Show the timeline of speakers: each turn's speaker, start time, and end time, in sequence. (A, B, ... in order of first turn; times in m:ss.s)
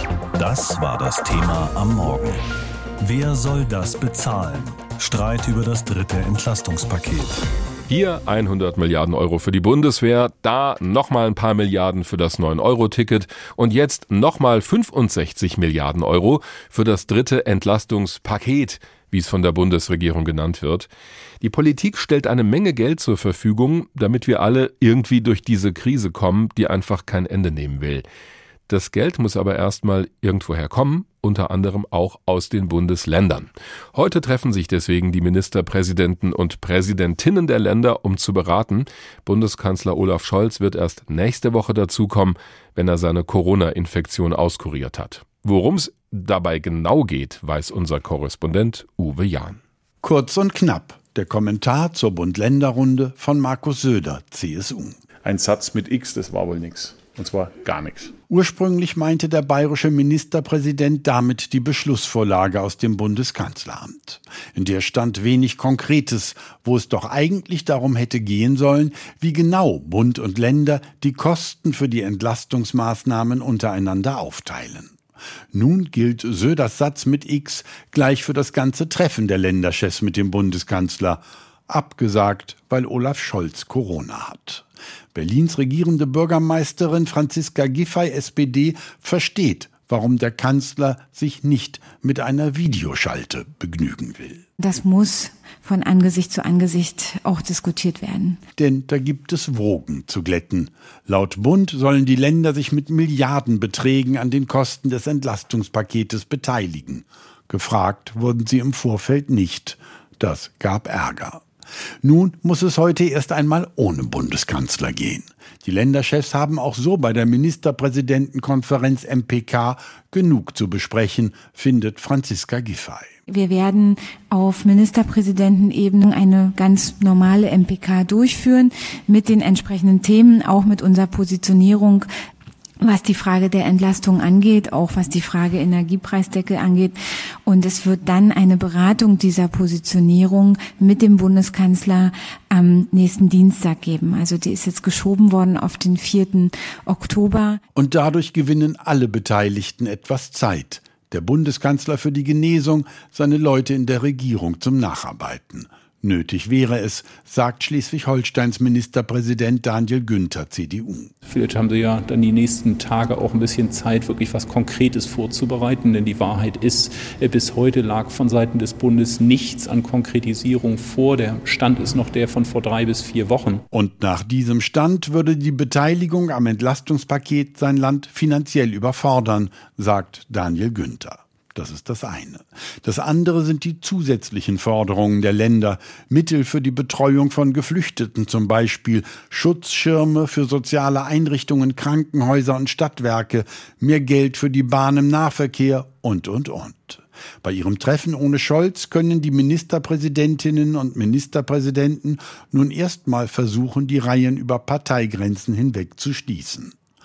0:00.3-0:02.4 A
0:03.0-0:07.5 A
0:07.9-0:20.9 B
0:21.4-0:28.0 B
0:28.7-0:49.6 B
0:50.0-0:55.0 C
0:55.2-0:58.1 D
0:58.3-1:15.0 C
1:15.5-1:34.4 C
1:34.6-1:38.4 E
1:38.6-1:51.4 C
1:52.0-2:03.1 C
2:03.3-2:12.1 E
2:12.8-2:27.6 E
2:27.8-2:41.1 C
2:41.3-2:53.6 F
2:53.7-3:26.8 C